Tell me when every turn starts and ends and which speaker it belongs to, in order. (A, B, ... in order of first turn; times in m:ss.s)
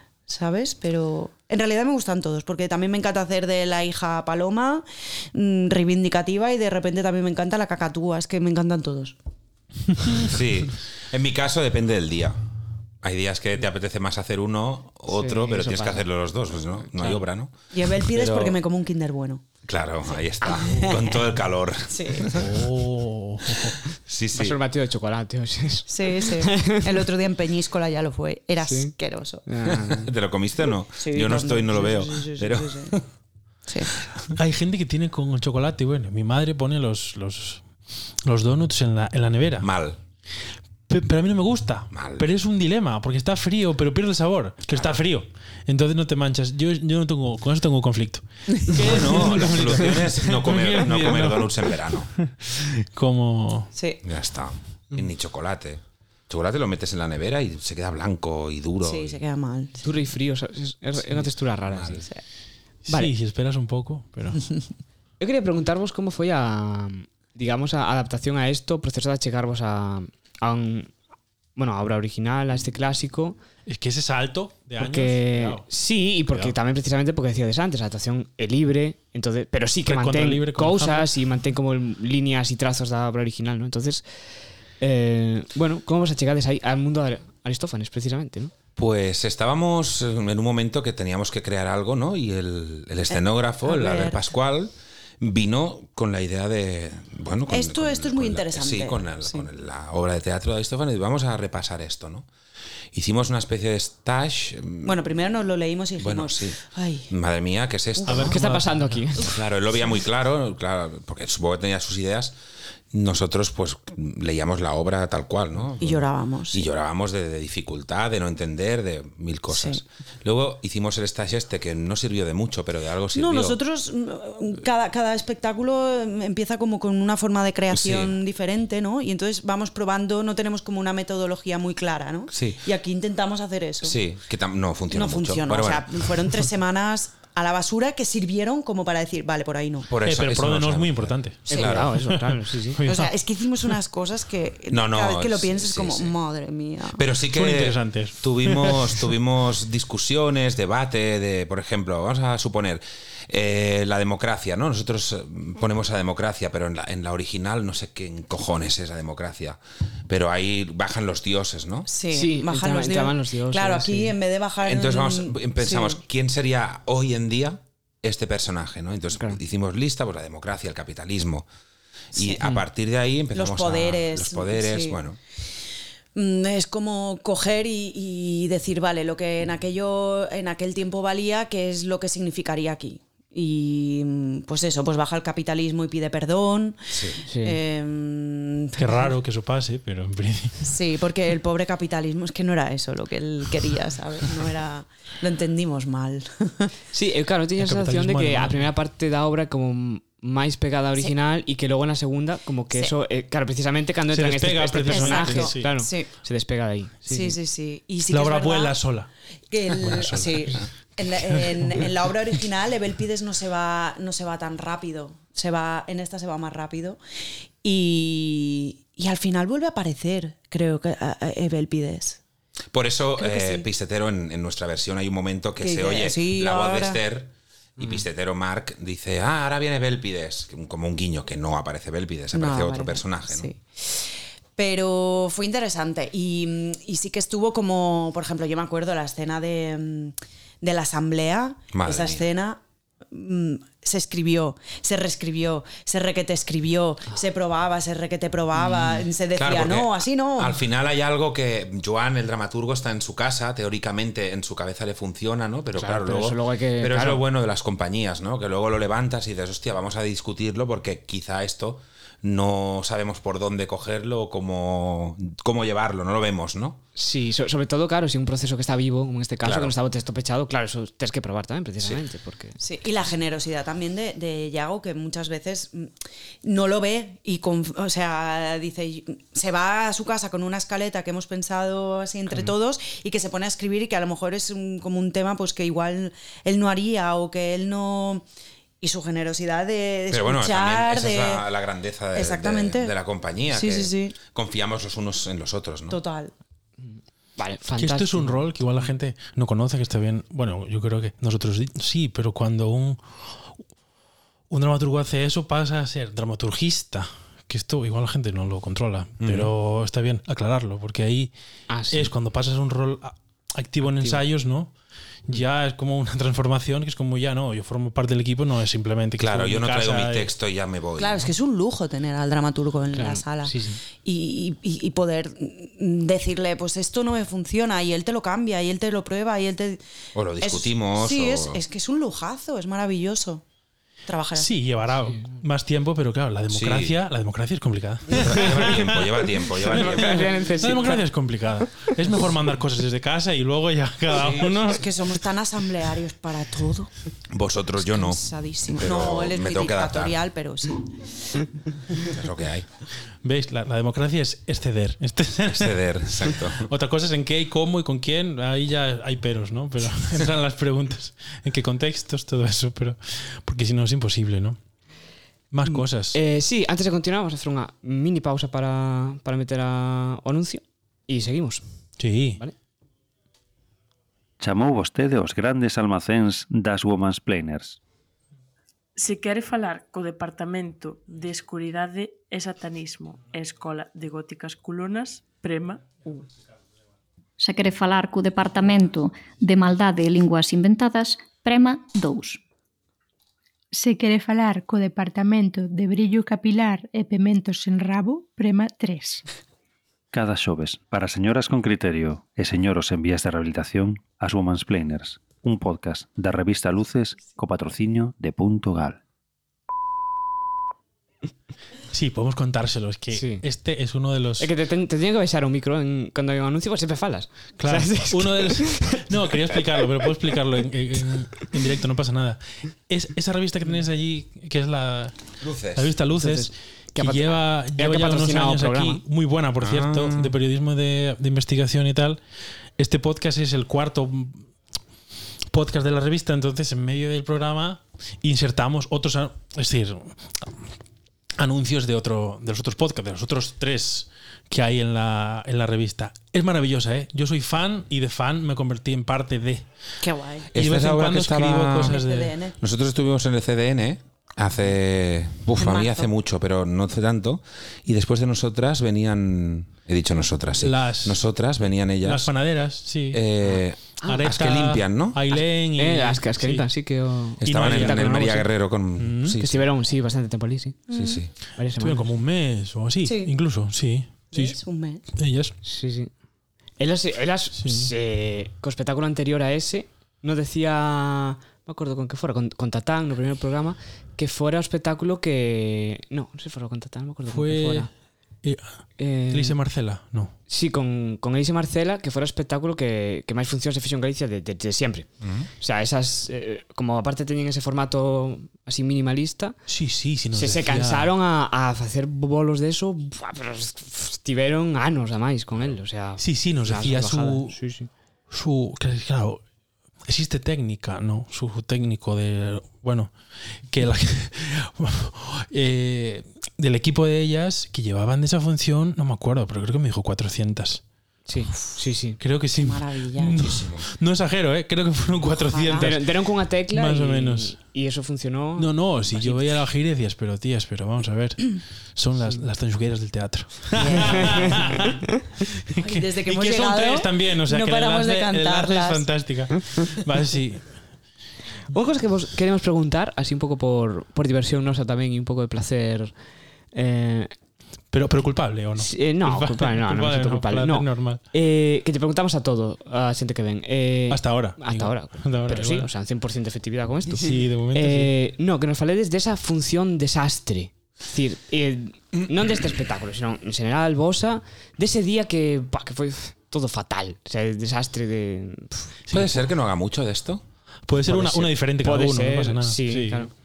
0:00.3-0:09.1 A
0:10.2-0:12.4 B
0:13.0-0:18.6 B
0:15.1-0:16.0 C
0:16.9-0:17.2 C
0:17.7-0:19.4 A
0:19.6-0:22.4 B
0:20.1-0:21.2 A
0:21.9-0:22.3 A
0:22.3-0:23.8 D
0:24.0-0:24.6 B
0:24.3-0:27.0 C
0:25.9-0:29.4 A
0:28.6-0:28.9 C
0:29.4-0:30.1 C
0:29.8-0:33.0 B
0:31.0-0:32.9 A
0:33.7-0:33.9 A
0:34.3-0:37.6 D
0:38.2-0:39.7 D
0:39.6-0:40.0 B
0:40.9-0:53.7 D
0:41.9-0:42.3 B
0:48.7-0:52.1 B
0:53.7-0:54.0 A
0:54.0-0:59.2 B
0:58.8-0:59.8 A
0:59.8-1:02.1 C
1:01.1-1:02.0 B
1:02.8-1:04.4 D
1:05.2-1:10.9 C
1:11.6-1:13.4 C
1:13.7-1:15.6 D
1:14.8-1:24.0 C
1:16.3-1:16.6 D
1:19.8-1:21.1 D
1:24.8-1:28.5 C
1:28.8-1:42.3 B
1:33.1-1:34.2 A
1:37.5-1:39.4 A
1:42.9-1:45.1 B
1:44.8-1:47.1 A
1:46.0-1:46.6 B
1:47.1-1:48.4 B
1:48.1-1:49.0 D
1:48.1-1:49.4 C
1:49.2-1:52.4 B
1:52.9-2:03.6 B
1:55.8-1:56.6 A
1:59.5-1:59.8 A
2:03.1-2:14.0 A
2:07.7-2:08.2 B
2:12.3-2:12.6 B
2:13.8-2:16.4 B
2:14.9-2:19.9 A
2:19.9-2:21.9 B
2:20.0-2:21.4 D
2:21.5-2:21.8 A
2:21.5-2:22.8 C
2:22.0-2:23.1 D
2:22.8-2:27.0 A
2:24.7-2:26.1 B
2:26.9-2:41.9 B
2:27.3-2:28.9 D
2:41.9-2:46.0 A
2:42.1-2:44.1 C
2:44.6-2:51.5 B
2:52.1-2:55.2 B
2:52.1-2:52.5 A
2:53.3-2:55.0 A
2:56.1-3:09.1 A
3:06.9-3:07.2 B
3:07.3-3:07.6 C
3:08.8-3:10.6 D
3:10.6-3:16.7 A
3:16.9-3:27.4 C
3:17.6-3:18.7 D
3:24.1-3:25.7 D
3:24.9-3:26.1 A
3:27.1-3:28.8 A
3:28.1-3:29.1 D
3:29.5-3:37.0 A
3:29.7-3:30.6 D
3:31.2-3:31.8 D
3:37.6-3:42.2 A
3:42.7-3:53.5 B
3:43.2-3:43.6 A
3:45.6-3:47.0 A
3:52.3-4:02.6 A
4:01.7-4:02.2 B
4:03.1-4:10.6 A
4:08.6-4:09.1 C
4:09.3-4:26.8 B
4:15.7-4:17.2 C
4:27.0-4:32.6 C
4:29.4-4:29.7 B
4:32.6-4:35.9 A
4:36.4-4:48.2 A
4:48.8-4:51.4 A
4:50.1-4:56.0 B
4:52.1-4:52.9 A
4:53.5-4:54.2 A
4:55.9-4:56.3 A
4:56.8-4:58.4 C
4:57.8-5:03.0 D
5:04.5-5:11.3 D
5:09.2-5:09.5 B
5:11.7-5:12.1 C
5:11.9-5:14.7 D
5:13.9-5:14.2 C
5:15.3-5:20.3 D
5:19.2-5:21.2 B
5:21.0-5:29.8 A
5:22.9-5:23.2 C
5:23.4-5:23.8 D
5:30.1-5:31.6 B
5:30.4-5:33.4 A
5:34.1-5:34.5 A
5:34.4-5:39.0 D
5:36.5-5:36.9 B
5:38.1-5:40.5 B
5:39.6-5:41.0 C
5:39.7-5:44.8 D
5:44.1-5:44.5 B
5:44.5-5:46.9 A
5:47.3-5:48.2 B
5:47.8-5:51.4 A
5:48.7-5:50.2 B
5:52.0-5:52.6 B
5:53.2-5:55.8 D
5:55.5-5:56.7 B
5:56.6-6:04.6 D
6:05.5-6:06.2 D
6:05.6-6:11.6 C
6:12.0-6:12.4 D
6:14.4-6:17.8 E
6:19.0-6:26.2 F
6:27.4-6:32.4 G
6:33.7-6:39.2 H
6:40.1-6:49.0 E
6:51.9-6:54.5 D
6:53.1-6:53.4 C
6:54.4-6:59.8 C
6:57.6-7:05.1 D
7:05.4-7:05.9 B
7:05.8-7:12.2 D
7:06.2-7:09.0 C
7:09.6-7:10.3 B
7:12.8-7:14.5 D
7:15.5-7:20.5 D
7:21.4-7:29.6 D
7:30.0-7:30.5 A
7:30.5-7:32.0 B
7:30.5-7:32.3 D
7:31.8-7:32.6 A
7:32.6-7:42.3 B
7:35.6-7:36.1 A
7:40.6-7:41.2 D
7:42.0-7:43.2 D
7:43.1-7:45.2 B
7:43.5-7:44.2 C
7:44.0-7:46.7 D
7:45.3-7:48.3 C
7:47.4-7:49.7 B
7:47.4-7:48.4 D
7:49.0-7:49.4 D
7:49.4-7:51.0 C
7:50.9-7:51.2 A
7:50.9-7:51.3 B
7:51.6-7:52.0 C
7:51.8-7:54.5 D
7:53.0-7:53.3 A
7:54.3-7:55.0 A
7:55.1-7:55.5 D
7:55.6-7:56.1 C
7:56.8-8:07.9 C
7:57.6-7:57.9 D
8:07.3-8:07.9 D
8:08.4-8:08.8 D
8:09.0-8:09.6 C
8:09.3-8:10.3 D
8:10.5-8:15.1 C
8:15.2-8:15.5 B
8:15.6-8:19.6 C
8:19.7-8:21.1 D
8:20.3-8:27.9 C
8:26.2-8:27.6 D
8:28.3-8:29.4 D
8:30.0-8:33.1 D
8:33.7-8:40.8 D
8:41.3-8:42.2 C
8:42.2-8:46.1 D
8:42.5-8:43.6 A
8:43.4-8:43.9 B
8:45.3-8:45.9 A
8:45.8-8:49.6 C
8:46.7-8:47.6 D
8:48.6-8:55.0 D
8:53.7-8:54.7 A
8:54.0-8:55.2 C
8:55.6-9:00.7 D
8:55.8-8:59.1 A
9:01.7-9:06.1 C
9:06.7-9:07.3 C
9:07.9-9:11.2 D
9:08.8-9:29.0 C
9:14.1-9:15.9 D
9:17.1-9:18.1 D
9:29.1-9:29.4 D
9:29.1-9:30.4 B
9:30.9-9:33.3 D
9:31.0-9:33.3 C